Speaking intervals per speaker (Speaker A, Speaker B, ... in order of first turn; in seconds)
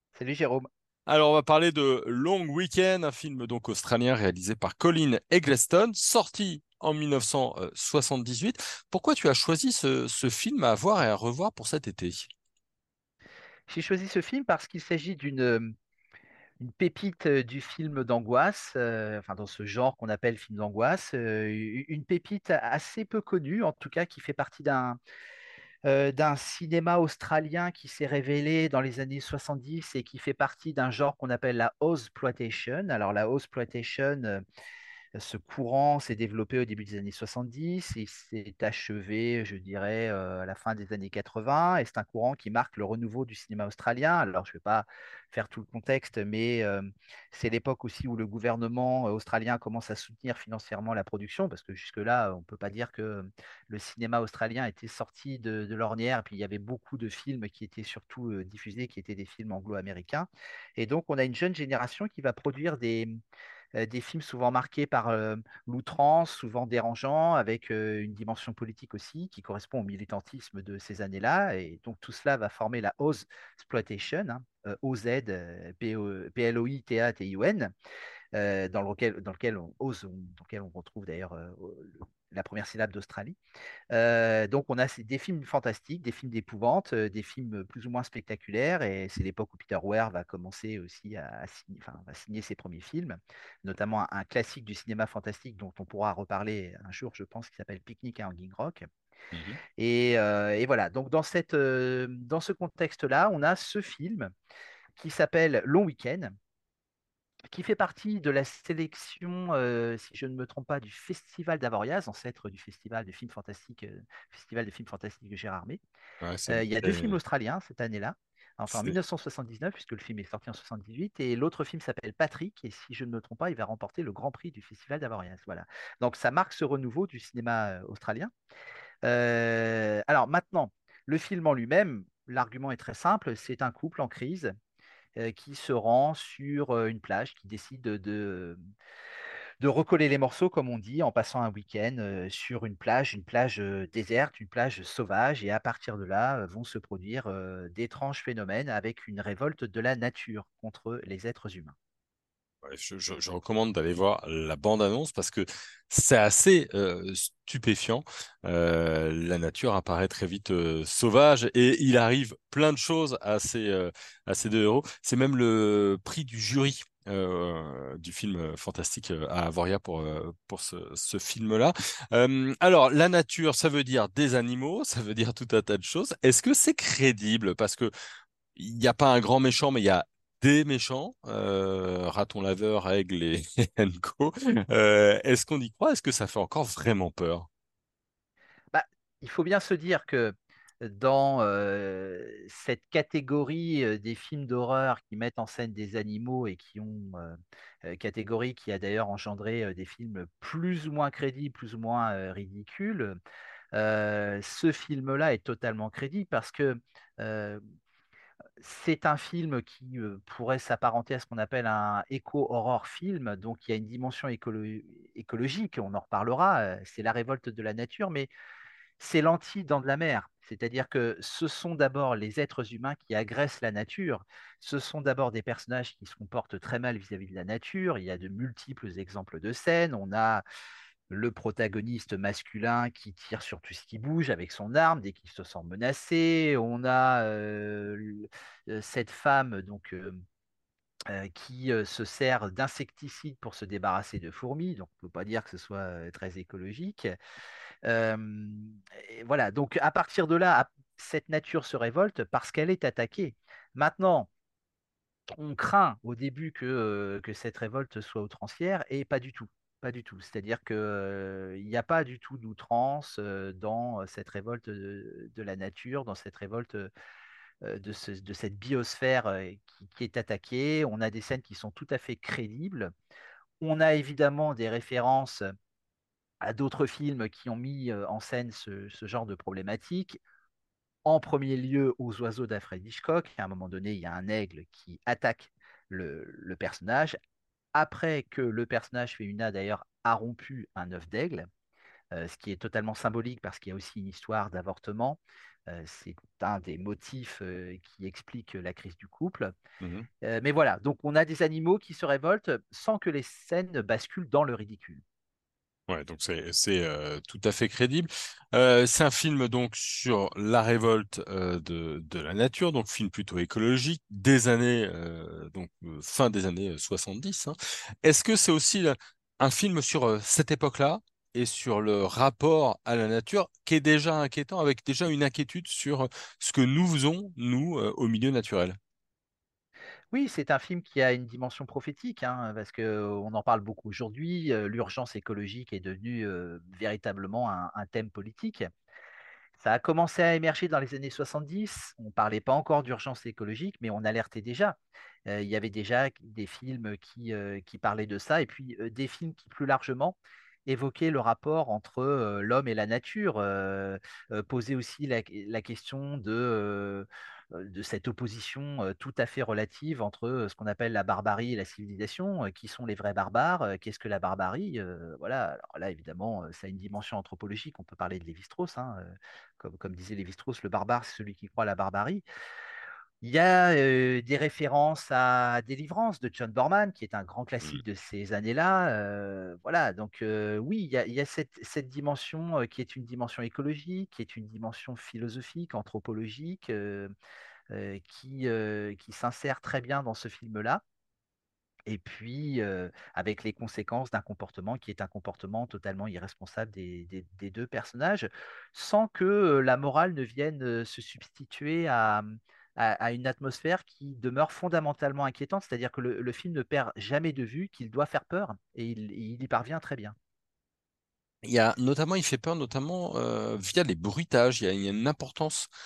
Speaker A: 0.1-0.7, 13.7-15.7, 16.6-25.0, 25.9-34.4, 35.1-63.2, 63.8-77.7, 78.3-83.4, 83.9-98.9, 99.8-104.3, 105.0-106.3, 107.5-115.8, 116.5-128.3, 129.0-134.5, 135.2-138.6, 139.6-151.8, 188.7-203.2, 203.7-207.6, 208.6-218.3, 219.0-230.4, 231.1-240.2, 241.1-247.1, 247.8-254.3, 255.4-266.9, 267.6-272.9, 273.6-275.4, 276.4-280.2, 281.1-287.2, 287.8-291.5, 292.1-299.5, 300.2-305.0, 330.1-338.7, 339.6-372.2, 373.2-387.1, 387.7-390.8, 391.9-402.3, 402.8-410.1
Speaker B: 1.1-12.3, 99.3-99.6, 116.2-117.2, 118.7-119.0, 152.6-177.9, 178.6-187.5, 299.8-300.1, 305.9-328.8, 411.4-415.7